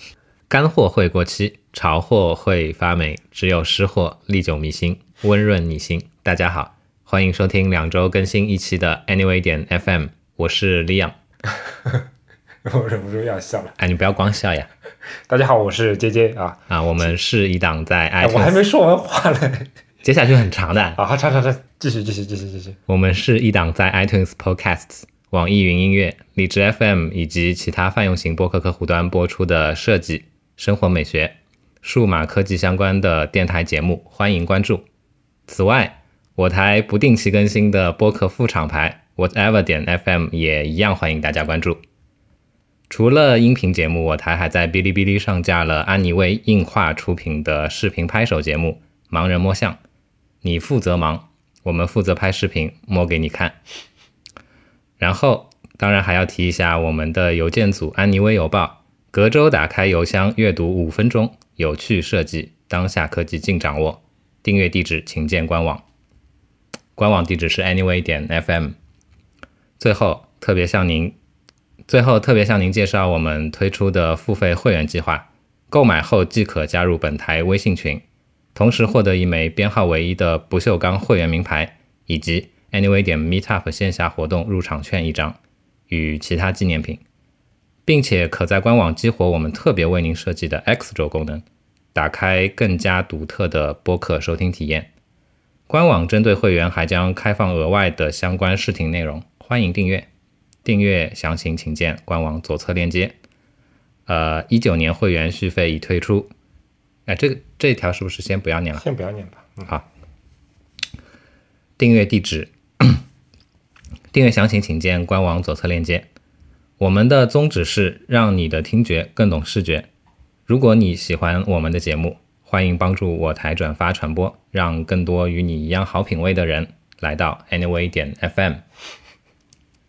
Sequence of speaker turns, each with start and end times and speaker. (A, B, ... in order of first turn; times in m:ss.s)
0:00.5-0:11.2 A
0:11.7-0:12.0 B
0:12.6-0:13.8 B
0:13.8-0:14.7 A
0:15.3-0:17.1 B
0:16.7-0:18.6 A
0:18.2-0:19.7 B
0:20.0-0:21.0 A
0:21.0-0:22.8 B
0:22.9-0:34.8 A
0:35.5-0:41.8 A
0:42.9-0:49.8 A
0:50.4-0:53.6 A
0:55.0-1:05.8 A
1:07.0-1:08.8 A
1:09.8-1:11.2 A
1:11.9-1:18.0 A
1:18.5-1:25.4 A
1:25.9-1:27.0 A
1:27.8-1:34.9 A
1:35.7-1:40.1 A
1:40.6-1:43.1 A
1:44.1-1:46.3 A
1:47.0-1:48.8 A
1:48.8-1:49.7 B
1:51.8-1:53.0 A
1:54.1-1:56.1 A
1:56.8-1:59.9 A
2:00.5-2:08.6 A